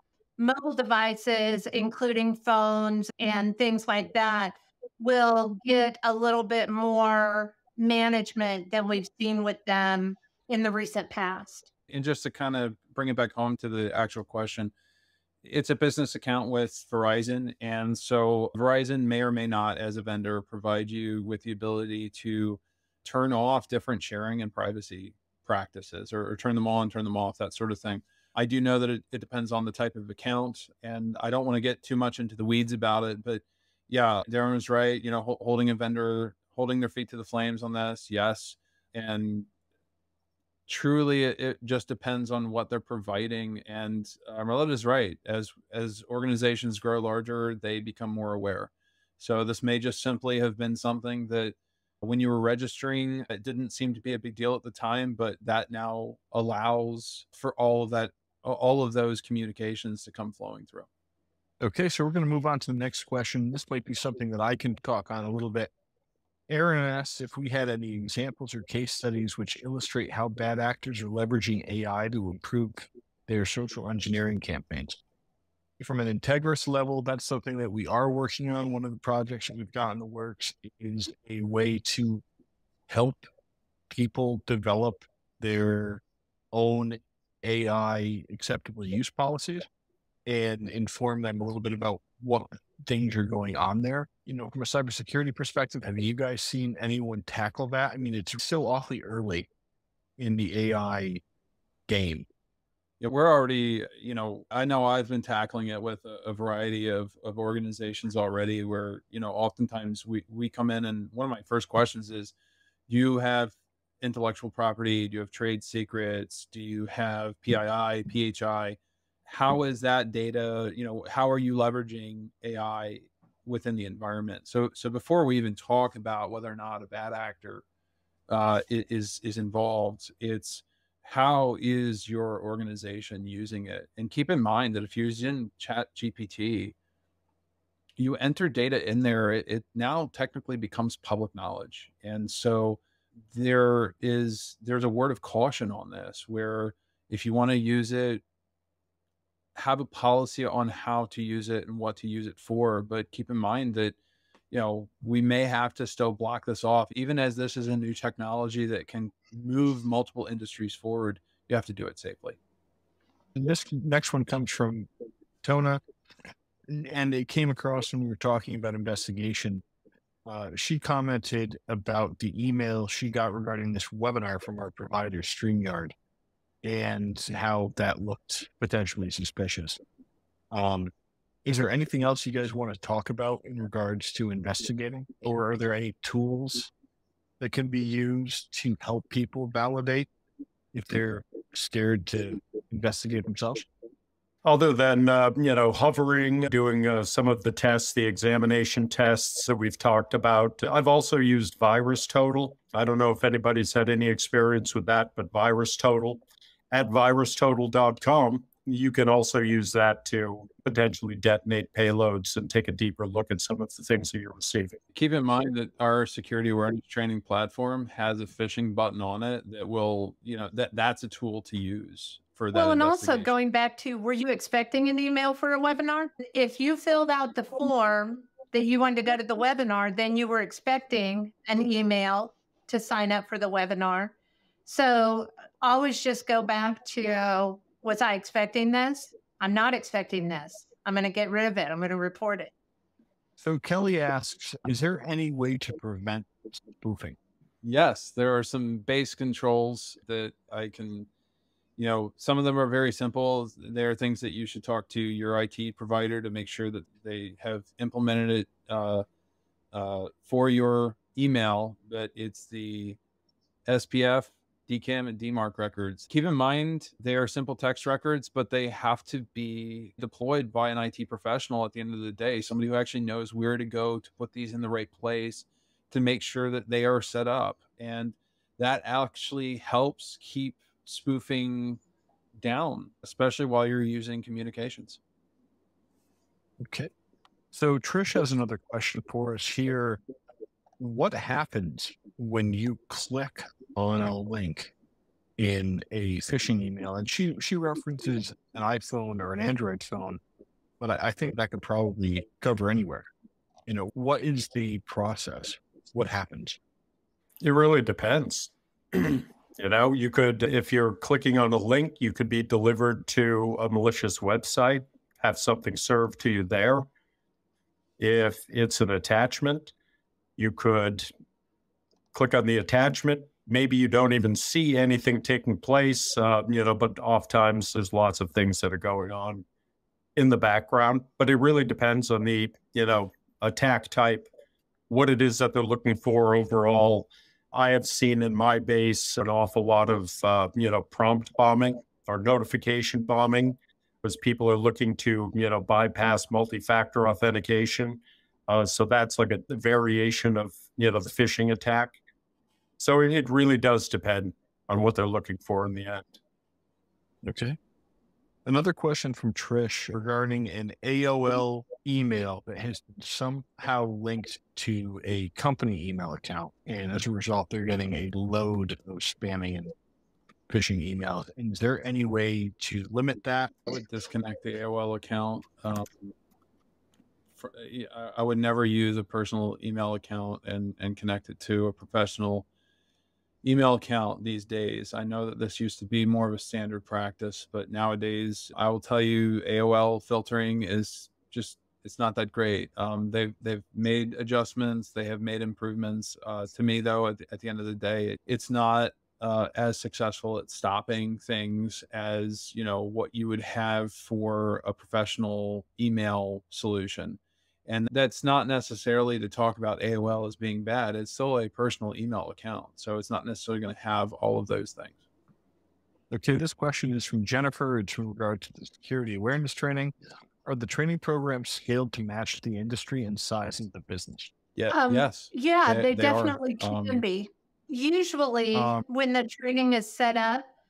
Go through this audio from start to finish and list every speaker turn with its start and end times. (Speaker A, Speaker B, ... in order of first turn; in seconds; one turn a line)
Speaker A: 0.4-11.7
Speaker B: 11.9-14.7
Speaker B: 15.4-39.5
Speaker B: 40.7-60.9
Speaker C: 61.6-65.7
Speaker C: 66.5-75.0
Speaker C: 75.8-82.2
Speaker C: 82.9-83.3
Speaker C: 83.9-89.7
Speaker C: 90.2-99.5
Speaker C: 100.2-101.2
Speaker C: 101.9-102.3
Speaker B: 103.0-112.3
Speaker B: 112.9-127.6
Speaker B: 128.3-136.7
Speaker B: 138.0-148.2
Speaker B: 149.6-153.9
Speaker B: 154.5-162.4
Speaker C: 163.3-164.9
Speaker C: 165.4-165.8
Speaker C: 166.7-169.6
Speaker C: 170.2-175.9
Speaker C: 176.6-179.8
Speaker C: 180.5-180.9
Speaker C: 181.4-186.7
Speaker C: 187.4-190.1
Speaker C: 190.7-193.7
Speaker D: 194.4-214.8
Speaker B: 214.9-223.3
Speaker A: 222.5-234.1
Speaker A: 234.7-242.5
Speaker C: 243.4-247.2
Speaker B: 247.6-251.1
Speaker B: 251.8-259.0
Speaker B: 259.7-263.0
Speaker B: 263.7-281.8
Speaker B: 282.4-285.0
Speaker C: 286.6-286.9
Speaker C: 287.5-290.0
Speaker C: 290.8-294.7
Speaker C: 295.4-300.2
Speaker C: 300.8-303.1
Speaker C: 303.7-306.6
Speaker D: 307.4-316.9
Speaker D: 318.0-319.7
Speaker D: 320.4-321.1
Speaker D: 322.1-329.4
Speaker D: 330.1-334.3
Speaker D: 334.9-352.0
Speaker D: 352.8-356.1
Speaker C: 357.2-357.6
Speaker C: 358.4-369.7
Speaker C: 370.5-373.6
Speaker B: 373.7-376.1
Speaker B: 377.4-382.4
Speaker B: 383.4-415.0
Speaker C: 416.1-424.3
Speaker B: 424.6-427.0
Speaker A: 424.7-430.4
Speaker C: 428.5-428.8